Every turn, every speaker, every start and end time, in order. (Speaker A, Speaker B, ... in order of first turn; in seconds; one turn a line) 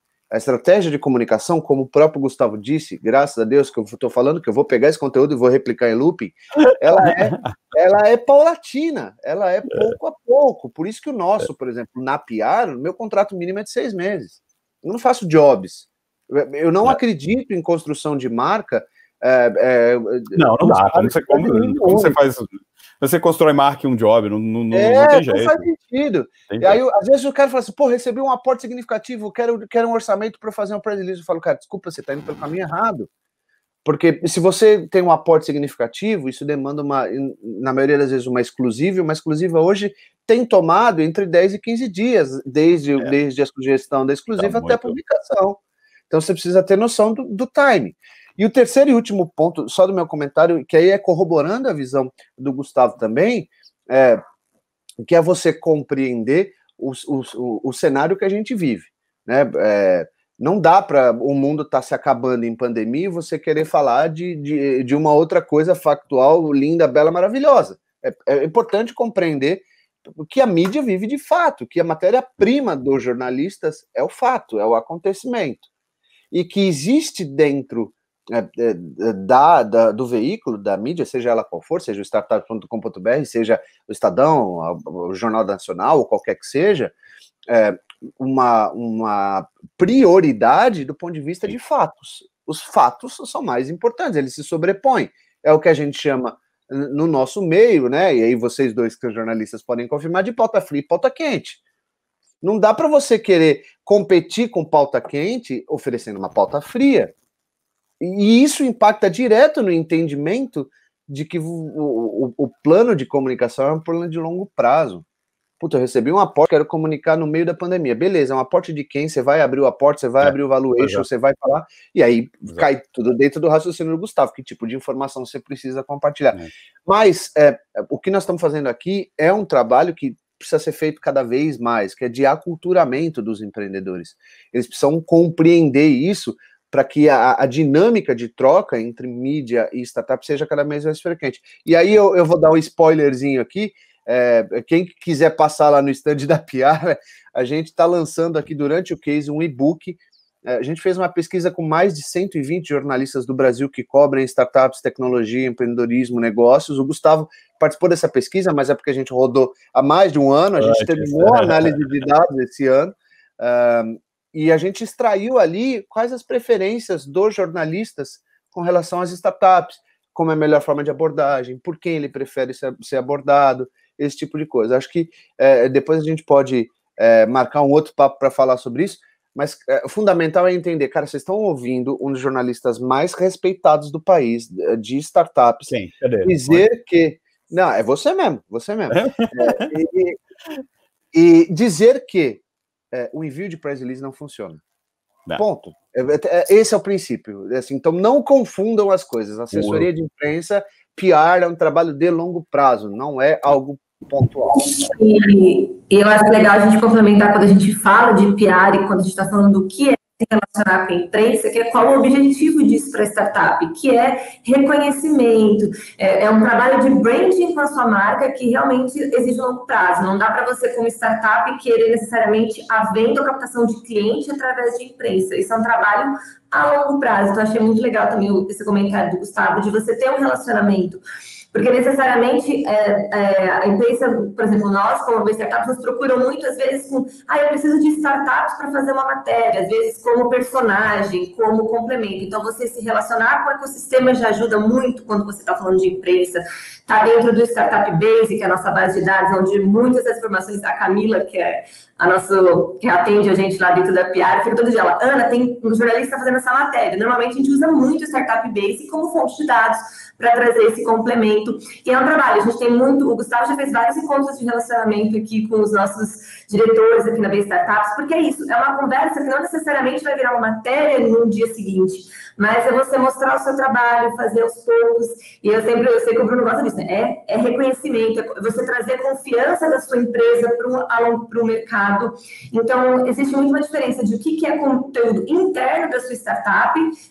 Speaker A: 0.3-22.2
Speaker B: 6.7-7.5
Speaker B: 20.3-25.6
Speaker A: 24.7-33.1
Speaker B: 26.5-26.8
Speaker A: 33.9-54.2
Speaker B: 44.4-45.0
Speaker A: 55.0-75.7
Speaker A: 76.3-87.0
Speaker A: 87.5-101.6
Speaker A: 102.4-107.1
Speaker A: 108.0-115.0
Speaker A: 115.6-185.7
Speaker B: 120.2-121.0
Speaker B: 160.6-161.8
Speaker B: 185.7-186.7
Speaker A: 186.2-190.2
Speaker B: 188.9-189.7
Speaker A: 191.1-194.6
Speaker A: 195.4-204.6
Speaker B: 199.5-199.9
Speaker C: 204.6-231.0
Speaker C: 231.5-286.9